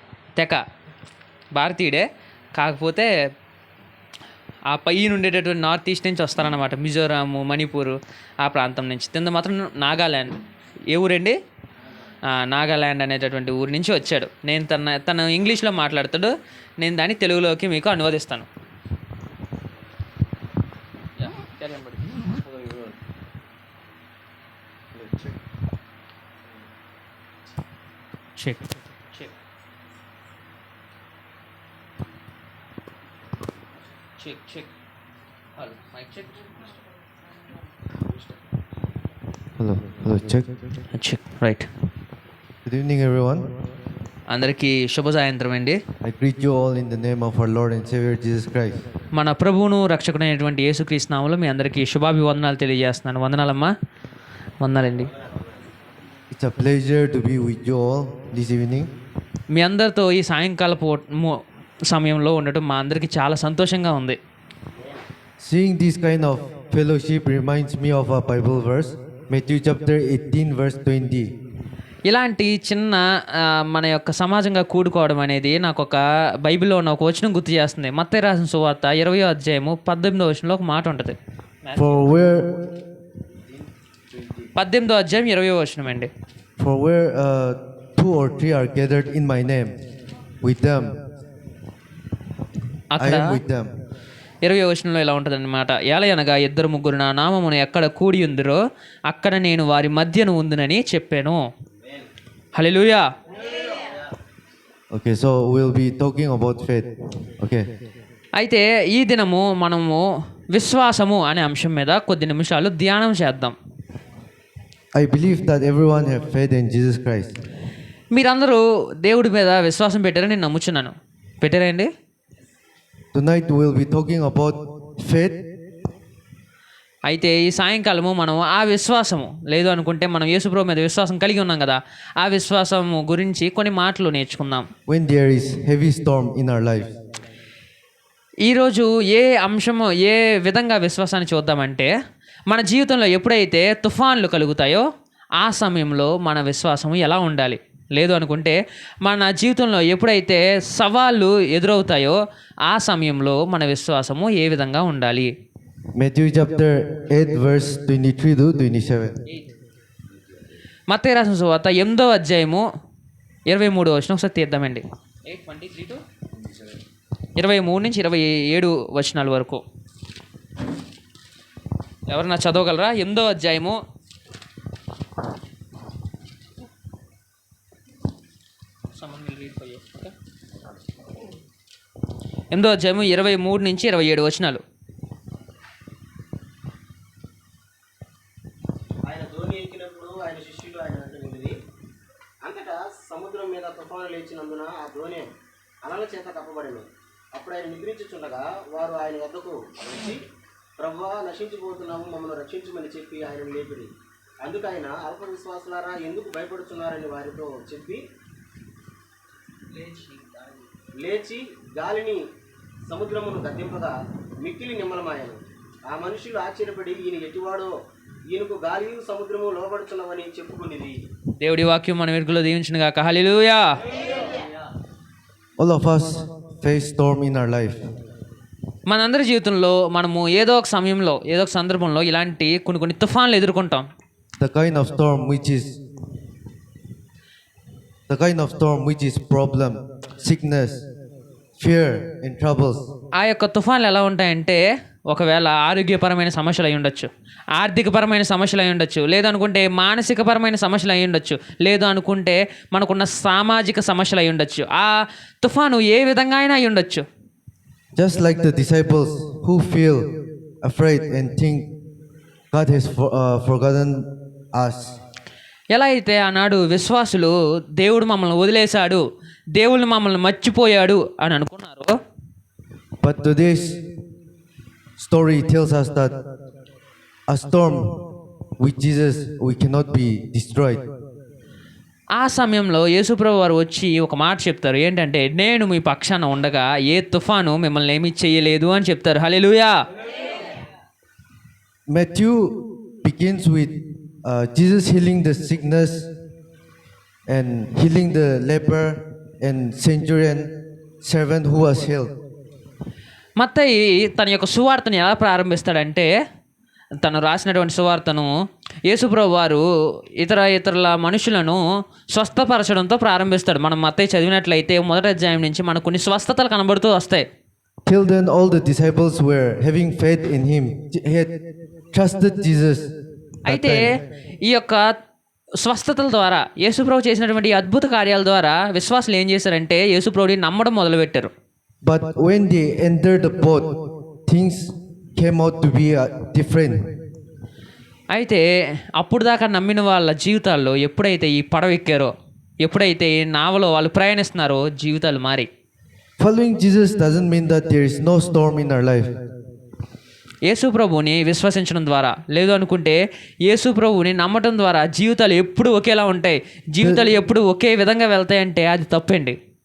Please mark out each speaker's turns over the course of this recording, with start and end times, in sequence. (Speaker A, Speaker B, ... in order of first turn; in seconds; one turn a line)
Speaker A: 0.4-0.6
Speaker A: 1.5-3.1
Speaker A: 4.7-11.4
Speaker A: 12.3-18.5
Speaker A: 21.2-22.9
Speaker A: 28.4-29.3
Speaker A: 34.2-34.7
Speaker A: 35.6-36.7
Speaker B: 39.6-40.5
Speaker A: 40.9-41.7
Speaker B: 42.6-43.5
Speaker A: 44.3-45.8
Speaker B: 46.0-48.9
Speaker A: 49.1-53.7
Speaker A: 54.6-55.1
Speaker B: 56.3-58.9
Speaker A: 59.5-64.2
Speaker B: 65.4-71.3
Speaker A: 72.1-82.0
Speaker B: 81.8-82.7
Speaker A: 84.5-86.1
Speaker B: 86.6-89.8
Speaker B: 90.4-91.0
Speaker A: 92.9-93.4
Speaker B: 93.0-93.7
Speaker A: 94.4-101.5
Speaker A: 102.5-103.1
Speaker B: 104.9-107.7
Speaker A: 108.4-113.5
Speaker B: 114.9-117.4
Speaker A: 118.1-121.9
Speaker B: 123.1-125.5
Speaker A: 127.1-134.7
Speaker B: 134.9-136.9
Speaker A: 138.4-141.9
Speaker A: 142.5-144.9
Speaker A: 145.4-155.3
Speaker B: 155.9-159.2
Speaker A: 160.9-162.7
Speaker A: 163.5-166.0
Speaker A: 167.4-169.6
Speaker A: 172.1-173.8
Speaker A: 179.0-180.1
Speaker A: 182.5-184.6
Speaker C: 189.0-191.6
Speaker C: 192.4-195.3
Speaker C: 195.8-200.3
Speaker C: 200.8-208.1
Speaker C: 211.0-212.2
Speaker C: 212.9-217.8
Speaker C: 218.3-221.0
Speaker A: 221.4-223.8
Speaker B: 225.6-227.8
Speaker A: 228.9-233.9
Speaker B: 234.4-235.8
Speaker B: 238.1-240.8
Speaker B: 241.6-242.9
Speaker A: 243.2-257.1
Speaker B: 257.9-261.7
Speaker B: 262.5-265.0
Speaker A: 265.7-272.0
Speaker B: 273.0-273.8
Speaker B: 275.0-276.2
Speaker B: 277.3-278.0
Speaker B: 278.6-280.9
Speaker A: 282.1-289.8
Speaker B: 291.9-296.1
Speaker B: 297.3-302.1
Speaker A: 303.4-306.1
Speaker A: 307.0-308.3
Speaker A: 308.9-309.6
Speaker A: 310.2-317.3
Speaker B: 317.9-321.4
Speaker B: 321.9-322.9
Speaker B: 323.5-324.0
Speaker A: 323.5-324.9
Speaker A: 325.6-331.3
Speaker B: 331.8-336.9
Speaker A: 338.1-338.4
Speaker A: 338.9-345.5
Speaker B: 346.2-349.2
Speaker A: 350.5-359.4